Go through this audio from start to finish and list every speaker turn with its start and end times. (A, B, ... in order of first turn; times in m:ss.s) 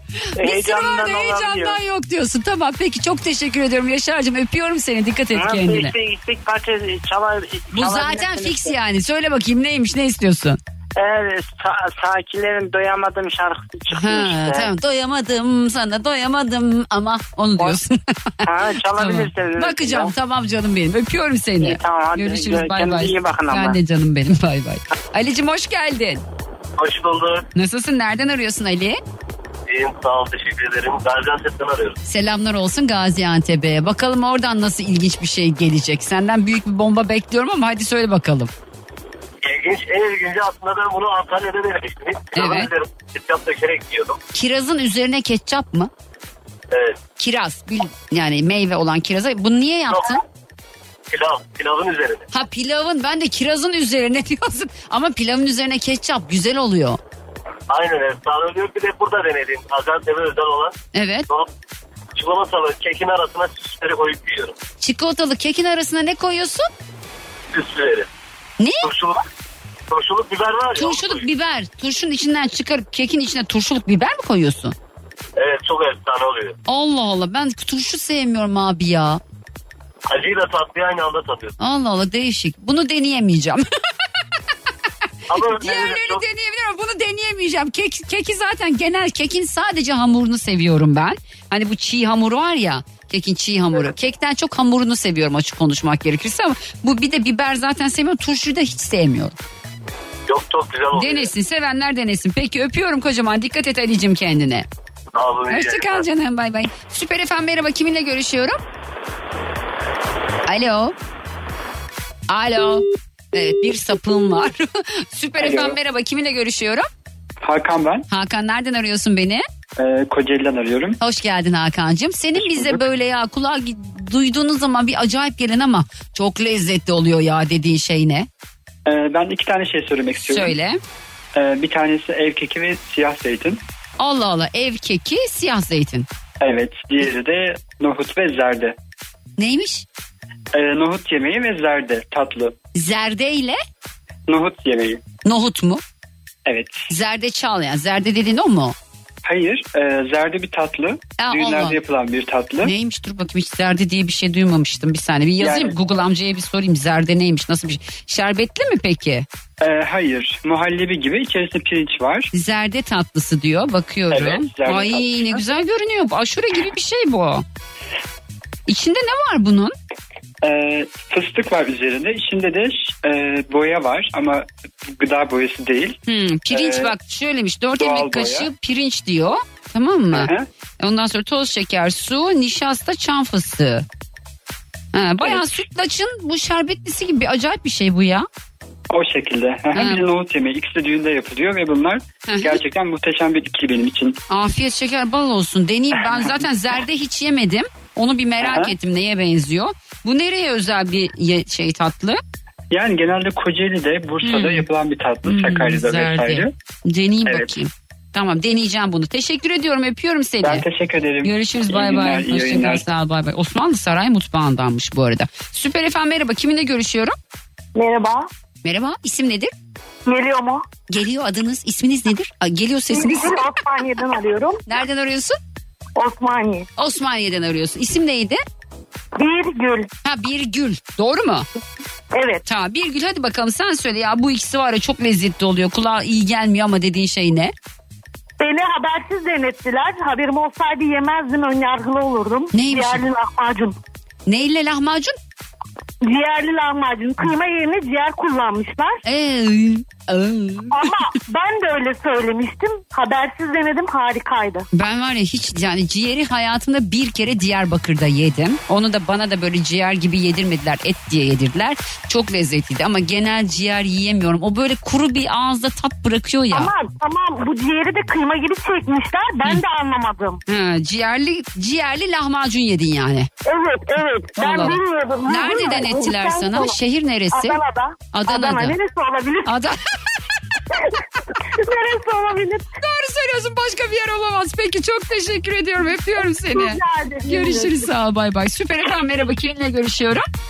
0:00.2-0:05.9 A
0:00.4-0:01.8 B
0:05.3-0:08.7 B
0:07.7-0:10.6 A
0:11.0-0:14.7 B
0:13.9-0:18.4 A
0:18.4-0:20.1 B
0:19.0-0:26.2 A
0:21.6-0:23.8 B
0:26.8-0:27.5 C
0:27.6-0:29.0 A
0:29.7-0:32.0 C
0:32.1-0:38.5 A
0:39.4-0:44.2 C
0:42.4-0:42.7 A
0:44.3-0:45.9 A
0:46.7-0:47.0 C
0:47.2-0:50.2 A
0:51.1-0:52.3 C
0:52.3-0:57.0 A
0:57.7-1:00.7 C
1:00.9-1:01.3 A
1:02.2-1:04.6 C
1:04.8-1:06.7 A
1:07.5-1:08.1 C
1:08.6-1:08.9 A
1:08.8-1:09.2 C
1:09.9-1:11.2 C
1:10.8-1:14.8 A
1:15.4-1:16.6 C
1:16.7-1:19.2 A
1:20.1-1:21.5 C
1:21.6-1:23.6 A
1:25.3-1:26.2 C
1:25.3-1:39.4 A
1:40.3-1:41.3 C
1:40.9-1:44.7 A
1:45.2-1:46.0 C
1:45.5-1:48.6 A
1:50.5-1:51.0 A
1:52.3-1:56.9 A
1:55.4-1:55.8 D
1:57.4-1:58.1 D
1:58.1-1:59.4 A
1:59.8-2:01.0 D
2:01.0-2:08.3 A
2:02.4-2:02.9 D
2:08.9-2:10.6 D
2:10.2-2:10.8 A
2:11.4-2:13.6 D
2:14.0-2:16.1 A
2:16.4-2:18.8 D
2:19.4-2:19.9 A
2:20.5-2:22.5 D
2:22.8-2:23.6 A
2:24.3-2:25.0 D
2:25.2-2:25.8 A
2:26.5-2:26.9 D
2:26.9-2:28.8 A
2:29.2-2:32.7 D
2:31.2-2:31.8 A
2:32.6-2:39.3 A
2:35.4-2:35.8 D
2:39.6-2:42.3 D
2:42.3-2:47.4 A
2:44.1-2:45.4 D
2:48.7-2:49.7 A
2:50.4-2:56.0 D
2:56.0-3:00.3 A
2:56.5-2:56.9 D
2:57.8-2:58.5 D
3:00.1-3:00.5 D
3:00.8-3:03.9 A
3:04.9-3:08.3 A
3:08.9-3:14.2 D
3:12.2-3:12.6 A
3:14.3-3:22.2 A
3:16.0-3:16.2 D
3:18.4-3:18.8 D
3:22.7-3:26.5 D
3:24.2-3:24.6 A
3:25.3-3:30.6 A
3:27.2-3:27.6 D
3:30.4-3:32.8 D
3:31.2-3:37.2 A
3:37.8-3:38.3 E
3:38.6-3:39.5 A
3:40.1-3:40.6 E
3:40.9-3:43.5 A
3:42.9-3:44.6 E
3:44.7-3:45.4 A
3:46.0-3:46.7 E
3:46.8-3:48.4 A
3:49.2-3:49.9 E
3:50.0-3:51.5 A
3:52.1-3:52.4 E
3:52.4-3:57.5 A
3:58.4-4:03.8 E
4:02.5-4:03.0 A
4:04.3-4:05.2 A
4:06.0-4:09.0 E
4:09.0-4:10.9 A
4:10.7-4:14.7 E
4:14.7-4:26.7 A
4:26.5-4:30.4 E
4:30.5-4:33.3 A
4:33.4-4:36.8 E
4:34.4-4:37.6 A
4:37.3-4:39.5 E
4:38.1-4:38.8 A
4:39.5-4:39.8 A
4:41.6-4:42.7 E
4:42.8-4:50.2 A
4:46.5-4:47.9 E